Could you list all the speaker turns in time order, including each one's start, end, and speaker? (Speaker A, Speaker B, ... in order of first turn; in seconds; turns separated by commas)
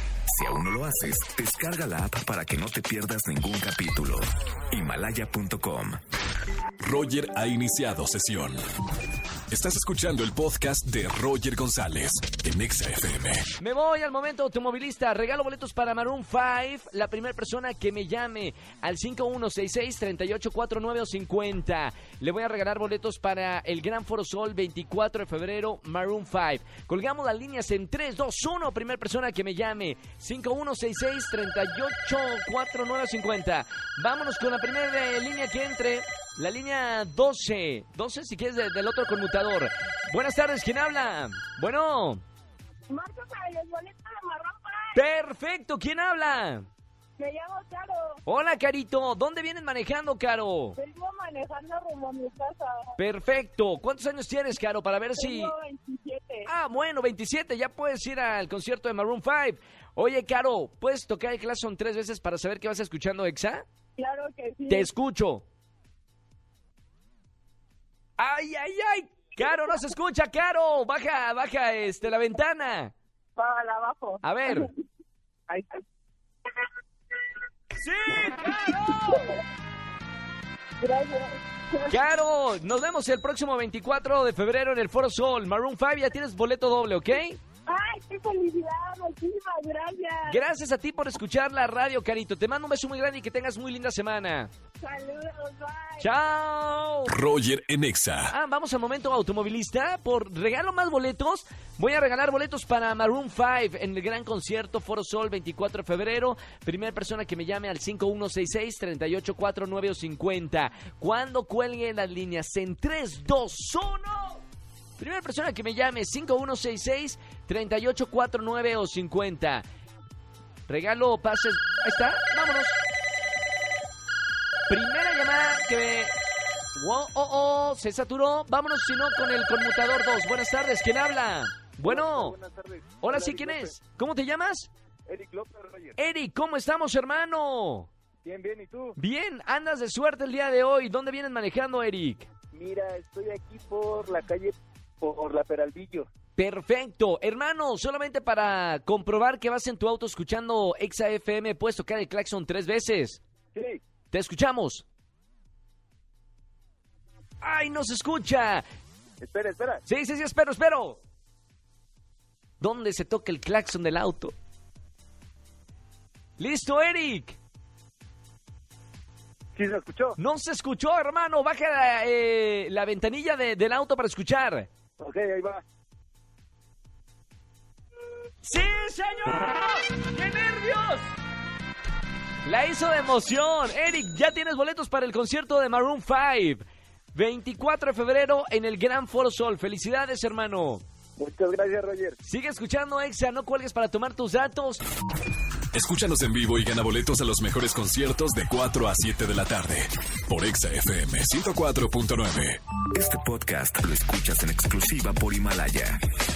Speaker A: 0.3-6.0, Speaker B: 6.8-8.6, Speaker B: 9.5-13.4, Speaker C: 13.6-42.2, Speaker D: 42.9-44.9, Speaker C: 44.9-46.7, Speaker D: 47.2-48.2, Speaker C: 48.2-50.8, Speaker D: 50.8-52.9, Speaker C: 53.0-55.5, Speaker D: 55.2-56.5, Speaker C: 56.5-63.6, Speaker D: 64.0-64.8, Speaker C: 64.7-65.4, Speaker C: 68.2-72.9, Speaker D: 73.3-74.2, Speaker C: 74.2-74.7, Speaker C: 77.7-79.4, Speaker D: 80.8-82.0, Speaker C: 81.9-87.4, Speaker D: 87.7-90.4, Speaker C: 90.3-94.5, Speaker D: 94.8-96.1, Speaker C: 96.0-97.1, Speaker B: 97.1-98.3, Speaker C: 98.3-114.4, Speaker C: 115.0-119.6, Speaker C: 120.7-122.8, Speaker C: 124.7-126.1, Speaker C: 126.7-132.3, Speaker E: 131.8-133.7, Speaker C: 133.0-134.7, Speaker E: 135.1-135.9, Speaker C: 136.0-137.9, Speaker E: 138.2-138.9, Speaker C: 139.0-142.3, Speaker E: 142.5-146.1, Speaker C: 146.3-153.2, Speaker E: 153.5-153.8, Speaker C: 154.1-154.8, Speaker C: 157.4-158.6, Speaker E: 159.2-159.8, Speaker C: 159.9-161.0, Speaker C: 162.6-164.3, Speaker C: 166.4-167.4, Speaker E: 169.6-170.2, Speaker C: 170.2-174.7, Speaker E: 175.0-175.6, Speaker C: 178.4-181.1, Speaker C: 182.4-190.8, Speaker E: 191.2-192.2, Speaker C: 192.2-194.8, Speaker B: 195.7-202.6, Speaker A: 202.9-206.0